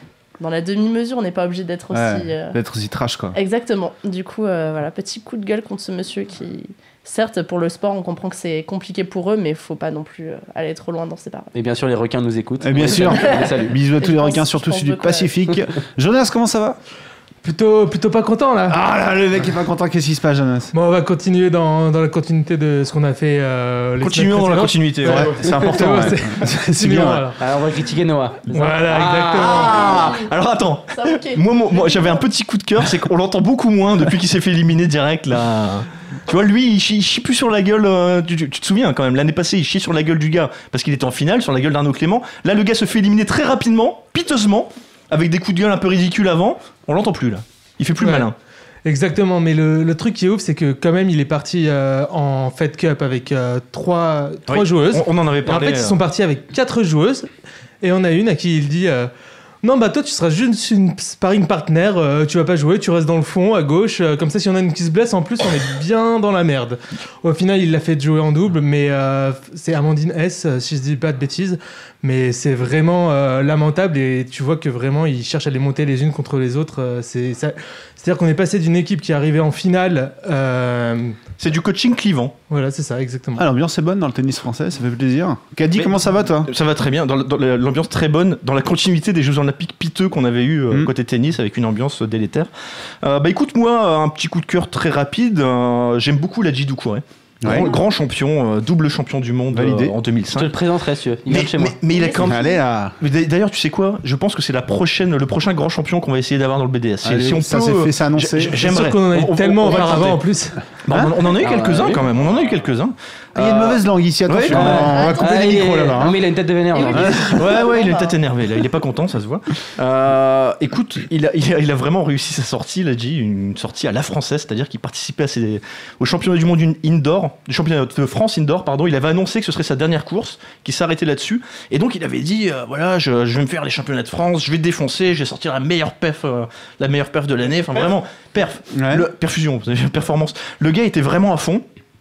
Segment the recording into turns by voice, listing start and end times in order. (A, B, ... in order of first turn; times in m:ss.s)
0:00.4-0:02.6 A
0:01.9-0:03.4 B
0:03.3-0:11.5 A
0:11.5-0:13.8 C
0:12.6-0:16.8 B
0:13.0-0:15.3 A
0:17.4-0:18.8 D
0:18.7-0:20.7 B
0:20.7-0:27.4 D
0:24.0-0:25.3 E
0:25.0-0:27.2 B
0:27.4-0:29.9 C
0:28.5-0:29.9 D
0:29.0-0:48.4 E
0:29.5-0:30.3 A
0:30.9-0:32.2 A
0:48.0-0:48.3 D
0:48.8-0:57.3 D
0:54.5-0:56.0 E
0:57.8-0:59.1 D
0:59.6-1:21.2 D
1:21.4-1:22.3 E
1:22.5-1:23.4 D
1:23.4-1:26.5 B
1:25.8-1:32.5 E
1:33.0-1:40.5 E
1:37.4-1:37.7 B
1:39.5-1:39.9 B
1:40.4-1:41.7 C
1:41.3-1:42.4 E
1:41.9-1:42.5 A
1:42.2-1:43.0 B
1:43.0-1:50.2 E
1:47.0-1:48.7 B
1:48.6-1:50.6 D
1:50.8-1:52.9 E
1:51.4-1:52.0 C
1:53.4-1:56.2 B
1:53.4-1:53.8 C
1:54.3-1:54.9 E
1:54.5-1:57.2 C
1:54.9-1:55.2 A
1:56.7-1:58.1 A
1:56.9-1:57.7 B
1:57.3-1:59.4 E
1:59.8-2:00.8 C
2:00.8-2:21.6 E
2:18.8-2:19.1 B